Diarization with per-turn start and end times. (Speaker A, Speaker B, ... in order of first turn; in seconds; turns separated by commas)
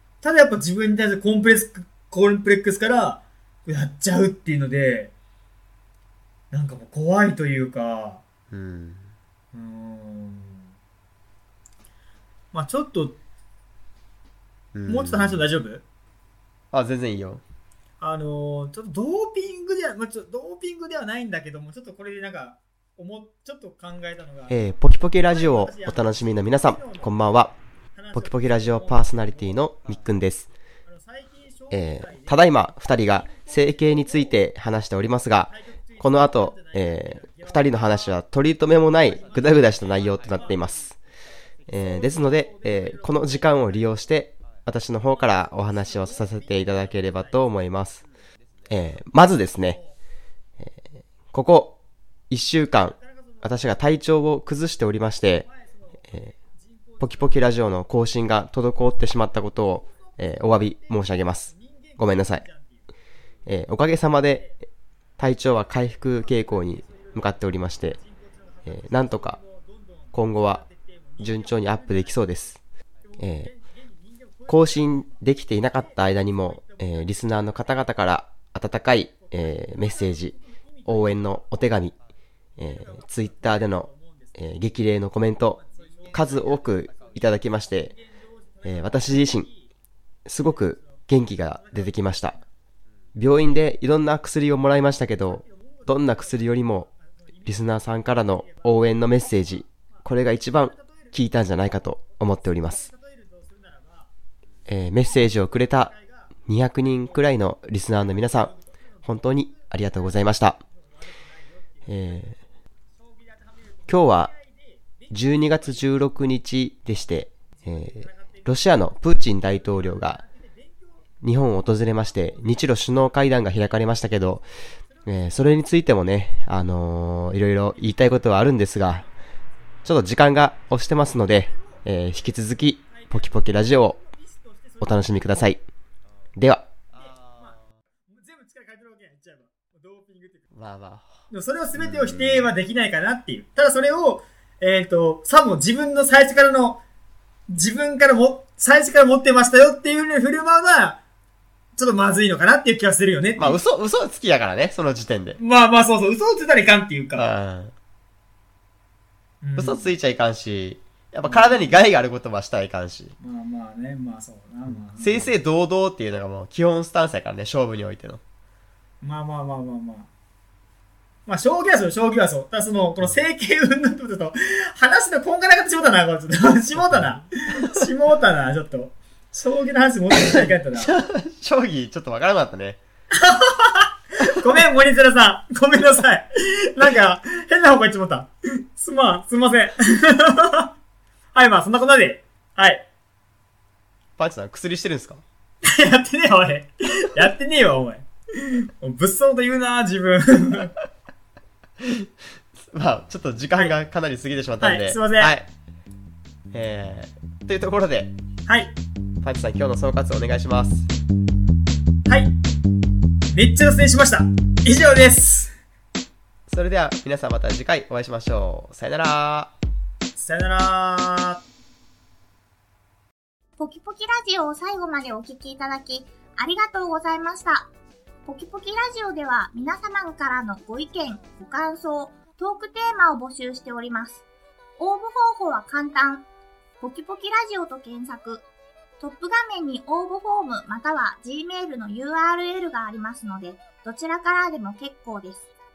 Speaker A: 0.2-5.1, Speaker A: 6.5-8.2, Speaker B: 8.5-9.1, Speaker A: 9.5-10.7, Speaker A: 12.5-13.2, Speaker B: 14.7-15.4, Speaker A: 14.9-15.8, Speaker B: 16.7-17.4, Speaker A: 18.0-27.2, Speaker B: 24.5-27.5, Speaker A: 27.9-29.7, Speaker B: 28.1-30.5, Speaker A: 30.9-34.4, Speaker B: 31.7-41.0, Speaker A: 35.5-38.2, Speaker A: 38.9-40.7, Speaker B: 41.7-48.0, Speaker A: 41.7-44.1, Speaker A: 45.1-47.4, Speaker B: 48.7-49.8, Speaker A: 49.6-50.0, Speaker B: 51.3-51.8, Speaker B: 52.3-55.4, Speaker A: 52.8-53.6, Speaker A: 55.4-57.4, Speaker B: 57.0-62.4, Speaker A: 59.9-62.9, Speaker B: 63.5-64.5, Speaker A: 64.2-64.5, Speaker B: 65.2-68.0, Speaker A: 66.0-67.4, Speaker A: 67.9-77.8, Speaker B: 68.7-69.4, Speaker B: 70.1-70.6, Speaker B: 71.2-72.6, Speaker B: 73.2-73.5, Speaker B: 74.5-80.3, Speaker A: 79.2-81.5, Speaker B: 80.8-81.9, Speaker B: 82.6-87.9, Speaker A: 82.6-84.4, Speaker A: 85.5-89.7, Speaker B: 88.6-89.5, Speaker B: 90.2-92.3, Speaker A: 90.4-92.5, Speaker B: 93.1-96.9, Speaker A: 95.3-101.2, Speaker B: 97.5-102.9, Speaker A: 102.1-104.1, Speaker B: 104.7-108.5, Speaker A: 105.5-106.3, Speaker A: 106.8-107.2, Speaker A: 108.1-110.2, Speaker B: 109.0-110.6, Speaker A: 110.7-112.4, Speaker B: 111.9-112.3, Speaker A: 113.0-116.0, Speaker B: 113.9-114.3, Speaker B: 115.1-120.2, Speaker A: 117.5-121.1, Speaker B: 121.2-124.4, Speaker A: 122.0-123.9, Speaker A: 124.9-125.6, Speaker B: 125.0-129.0, Speaker B: 129.8-134.0, Speaker A: 131.4-131.8, Speaker A: 132.8-135.2, Speaker B: 134.8-135.6, Speaker B: 136.3-137.1, Speaker A: 137.0-137.6, Speaker A: 138.1-140.5, Speaker B: 140.5-142.5, Speaker A: 141.3-146.8, Speaker A: 147.5-151.0, Speaker A: 151.8-153.6, Speaker B: 153.4-155.4, Speaker A: 155.4-157.3, Speaker B: 157.2-157.7, Speaker A: 159.4-159.9, Speaker B: 159.6-163.1, Speaker A: 161.2-161.8, Speaker A: 163.2-165.3, Speaker B: 164.8-168.2, Speaker A: 169.0-170.1, Speaker A: 171.3-181.0, Speaker B: 176.8-177.9, Speaker B: 180.1-182.8, Speaker A: 183.1-190.7, Speaker A: 191.3-192.8, Speaker B: 194.2-195.2, Speaker A: 195.6-200.7, Speaker B: 202.6-205.5, Speaker A: 204.6-205.3, Speaker B: 206.5-208.1, Speaker B: 209.2-210.9, Speaker A: 212.1-212.3, Speaker A: 213.3-215.5, Speaker B: 216.5-219.5, Speaker A: 220.2-221.4, Speaker C: 223.6-227.7, Speaker C: 228.2-234.2, Speaker C: 234.8-236.3, Speaker C: 236.8-238.4, Speaker C: 239.0-245.5